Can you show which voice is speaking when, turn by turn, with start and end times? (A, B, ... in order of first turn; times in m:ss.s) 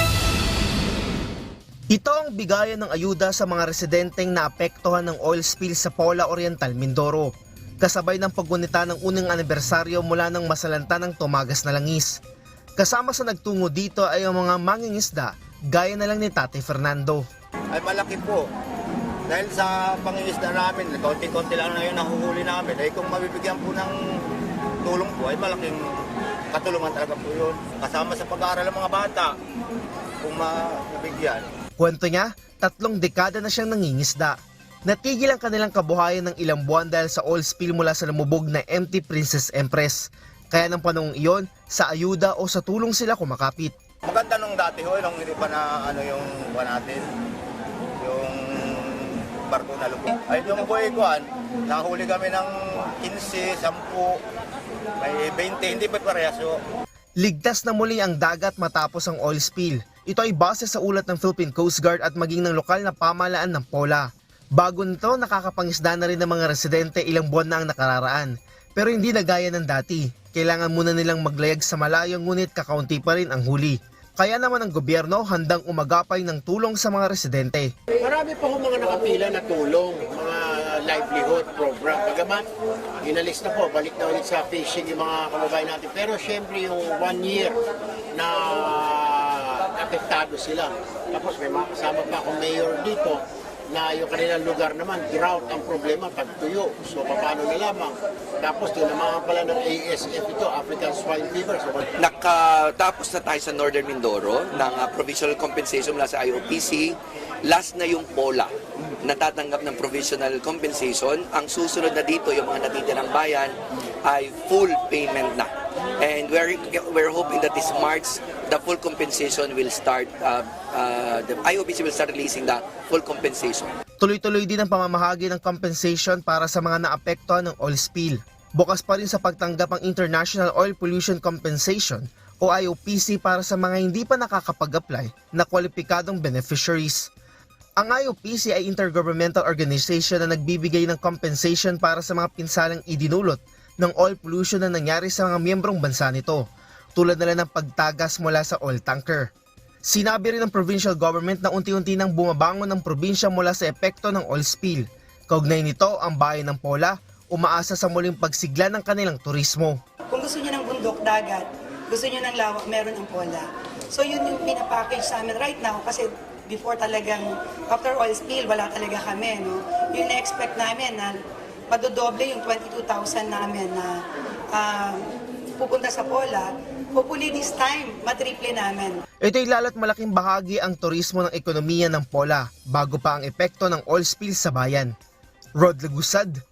0:01.9-0:12.2 A
0:12.8-0:17.2 A
0:17.7-0:18.5 B
0:19.3-0:24.0 B
0:24.8-0:25.8 B
0:26.5-0:29.4 B
0:30.2-0:31.5 B
0:31.8-0:43.7 A
0:44.1-0:47.1 B
0:48.0-0:54.2 B
0:55.0-0:56.6 B
0:57.2-1:17.7 A
1:18.0-1:22.5 C
1:23.0-1:27.6 C
1:28.1-1:41.8 C
1:42.0-2:03.7 D
2:04.0-2:17.1 A
2:17.8-2:26.4 A
2:27.0-2:29.3 A
2:29.9-2:39.8 A
2:40.1-2:51.2 E
2:51.7-2:54.0 E
2:54.5-2:55.0 E
2:55.6-2:59.0 E
2:59.2-3:04.9 A
3:05.6-3:06.4 A